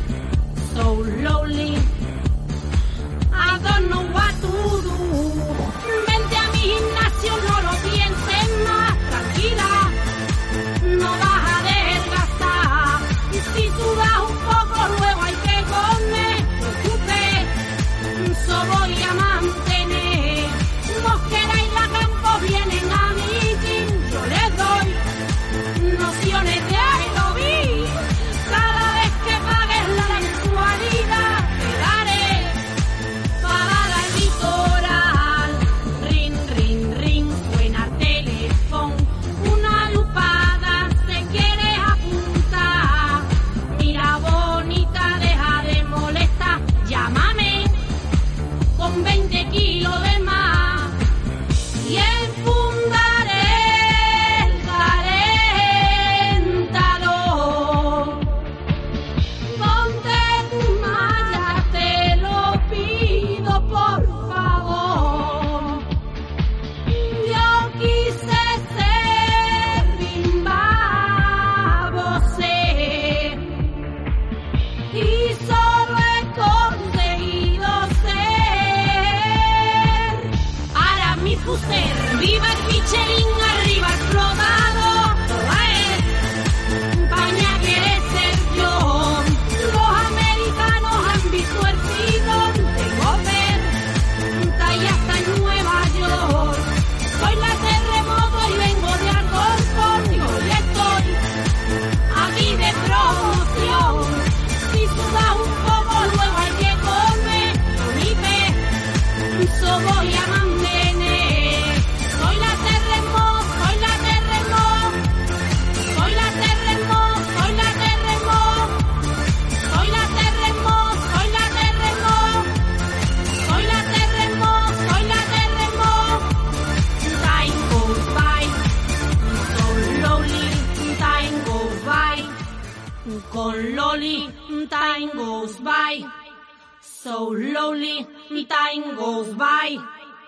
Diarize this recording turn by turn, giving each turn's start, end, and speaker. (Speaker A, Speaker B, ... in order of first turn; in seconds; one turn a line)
Speaker A: 0.6-1.9
Speaker A: 3.3-10.0
Speaker A: 10.8-17.6
Speaker A: 18.1-25.0
Speaker A: 25.7-32.6
Speaker A: 33.4-47.8
Speaker A: 48.7-51.0
Speaker A: 51.8-58.5
Speaker A: 59.5-65.9
Speaker A: 66.9-73.7
Speaker A: 74.9-86.3
Speaker A: 86.9-93.8
Speaker A: 94.3-101.2
Speaker A: 102.1-108.7
Speaker A: 109.3-115.0
Speaker A: 115.9-119.0
Speaker A: 119.6-122.5
Speaker A: 123.4-126.4
Speaker A: 127.0-128.6
Speaker A: 129.2-132.4
Speaker A: 133.1-136.1
Speaker A: 136.8-139.9